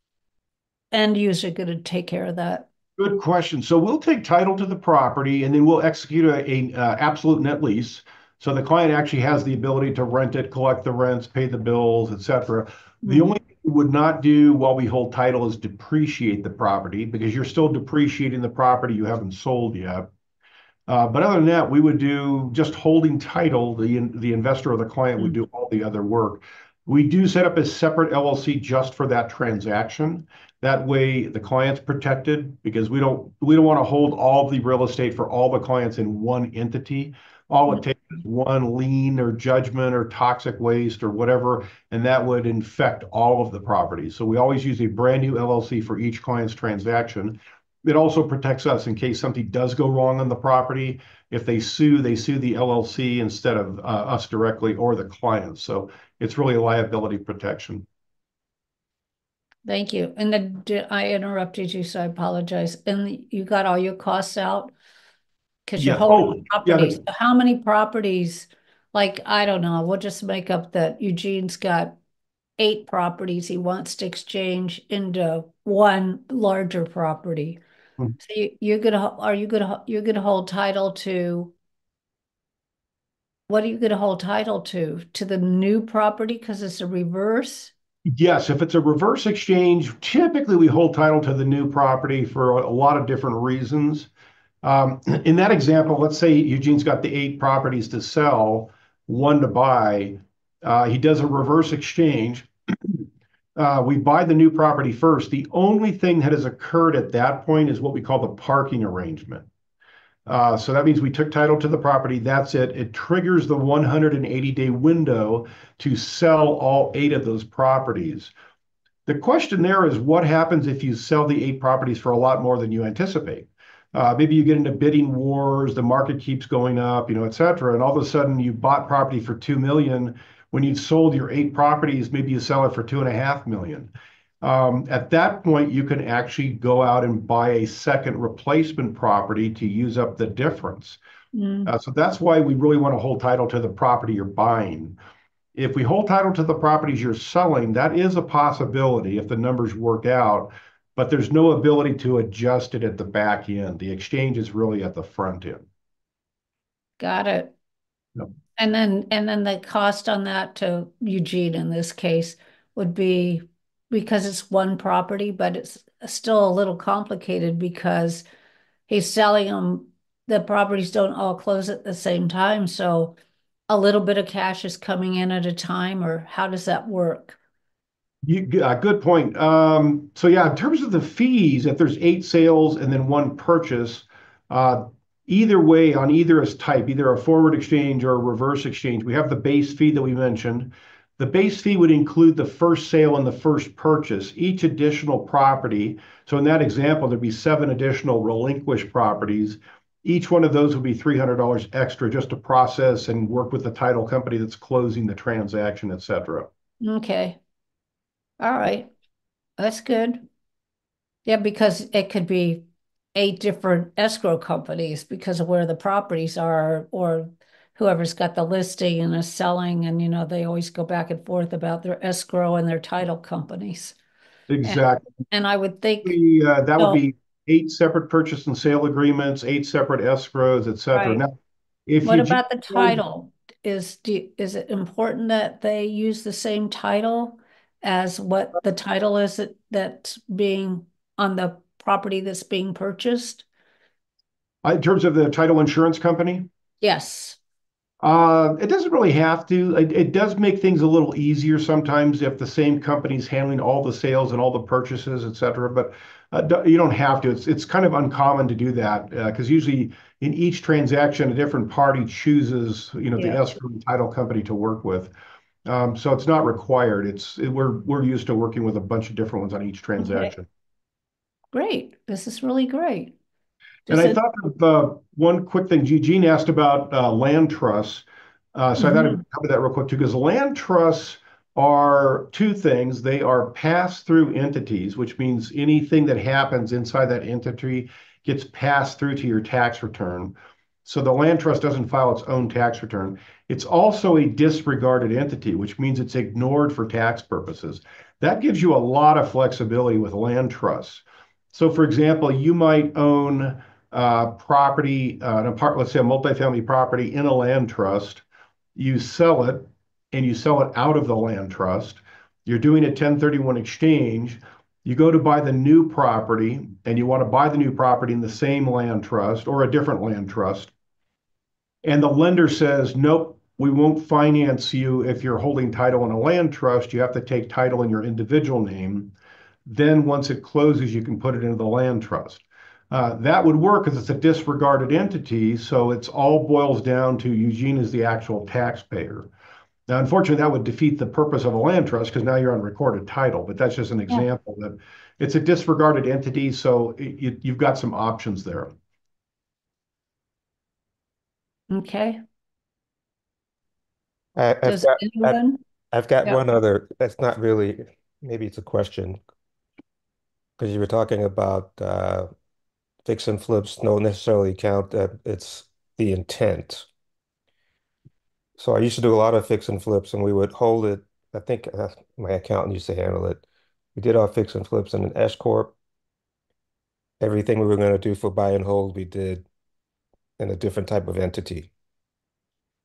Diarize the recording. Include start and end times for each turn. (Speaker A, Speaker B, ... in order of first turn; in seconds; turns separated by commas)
Speaker A: 0.9-2.7, Speaker B: 3.0-20.1, Speaker B: 20.9-57.9, Speaker A: 59.6-64.7, Speaker A: 65.7-72.0, Speaker B: 65.8-67.0, Speaker A: 72.6-77.6, Speaker A: 78.2-81.5, Speaker A: 83.5-87.7, Speaker B: 88.1-94.1, Speaker B: 94.6-109.5, Speaker B: 110.3-118.3, Speaker B: 119.1-133.9, Speaker B: 134.4-141.0, Speaker A: 141.3-141.7, Speaker B: 141.7-145.0, Speaker B: 145.6-155.7, Speaker A: 157.0-157.5, Speaker A: 158.6-168.2, Speaker A: 168.9-173.2, Speaker A: 173.7-177.4, Speaker B: 178.2-206.5, Speaker A: 206.8-207.4, Speaker A: 208.4-208.9, Speaker A: 209.6-210.2, Speaker A: 211.3-224.0, Speaker B: 224.5-225.1, Speaker A: 224.7-226.2, Speaker B: 226.0-231.3, Speaker A: 230.9-231.2, Speaker B: 231.9-233.0, Speaker A: 232.1-243.5, Speaker B: 244.6-246.5, Speaker A: 246.8-247.4, Speaker B: 248.0-265.1, Speaker B: 265.7-270.5, Speaker A: 270.0-270.3, Speaker A: 271.5-273.1, Speaker A: 273.9-274.2, Speaker B: 273.9-308.2, Speaker A: 278.8-279.2, Speaker B: 308.8-320.7, Speaker B: 321.8-329.1, Speaker B: 329.7-339.3, Speaker B: 339.9-348.7, Speaker A: 351.7-352.2, Speaker C: 354.4-355.4, Speaker A: 354.7-355.6, Speaker C: 355.9-359.2, Speaker C: 360.6-362.3, Speaker C: 363.1-366.9, Speaker C: 368.6-373.4, Speaker C: 374.0-375.7, Speaker C: 377.2-379.4, Speaker C: 380.4-381.7